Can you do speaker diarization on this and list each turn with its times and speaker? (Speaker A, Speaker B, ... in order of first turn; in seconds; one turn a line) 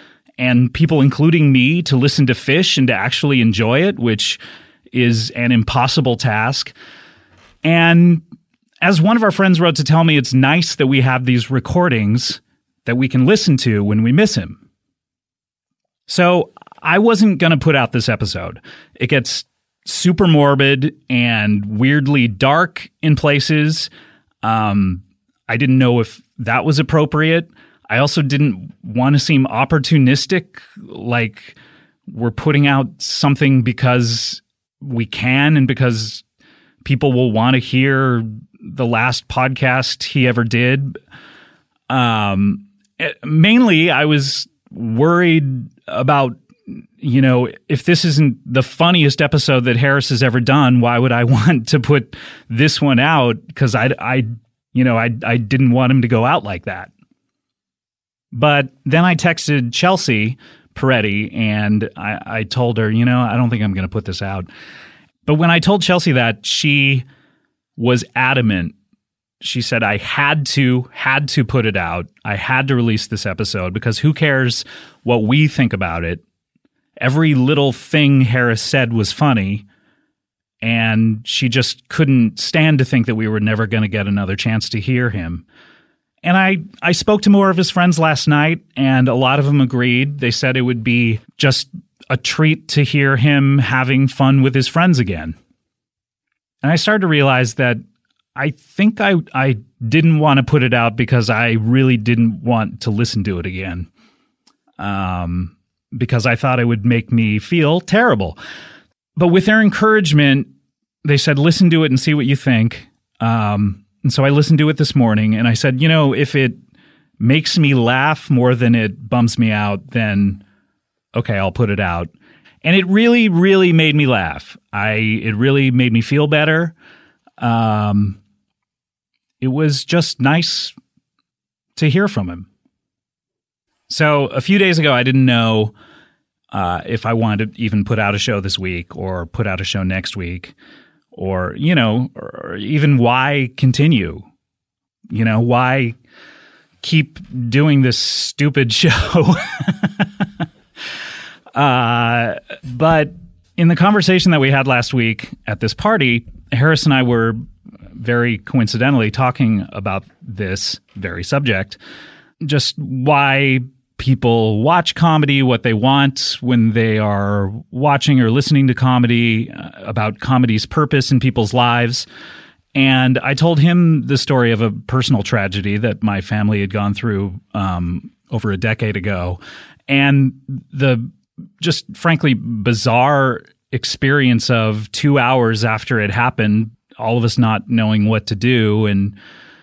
Speaker A: 0.4-4.4
Speaker A: 4.9-6.7
Speaker A: 7.6-8.2
Speaker A: 8.8-14.6
Speaker A: 16.1-23.9
Speaker A: 24.4-31.6
Speaker A: 32.1-36.2
Speaker A: 36.8-41.0
Speaker A: 41.9-56.9
Speaker A: 58.3-64.5
Speaker A: 65.3-67.1
Speaker A: 67.8-68.7
Speaker A: 69.4-76.2
Speaker A: 77.0-79.7
Speaker A: 80.6-85.5
Speaker A: 86.2-95.4
Speaker A: 96.6-97.8
Speaker A: 98.4-103.9
Speaker A: 104.8-108.4
Speaker A: 109.2-110.5
Speaker A: 111.0-116.6
Speaker A: 117.2-120.4
Speaker A: 121.2-122.1
Speaker A: 122.6-126.7
Speaker A: 127.4-128.2
Speaker A: 129.4-130.7
Speaker A: 131.8-132.5
Speaker A: 133.9-135.7
Speaker A: 136.5-140.5
Speaker A: 141.1-144.3
Speaker A: 145.1-146.0
Speaker A: 146.8-150.1
Speaker A: 151.5-157.4
Speaker A: 158.0-161.8
Speaker A: 162.4-172.1
Speaker A: 172.8-189.2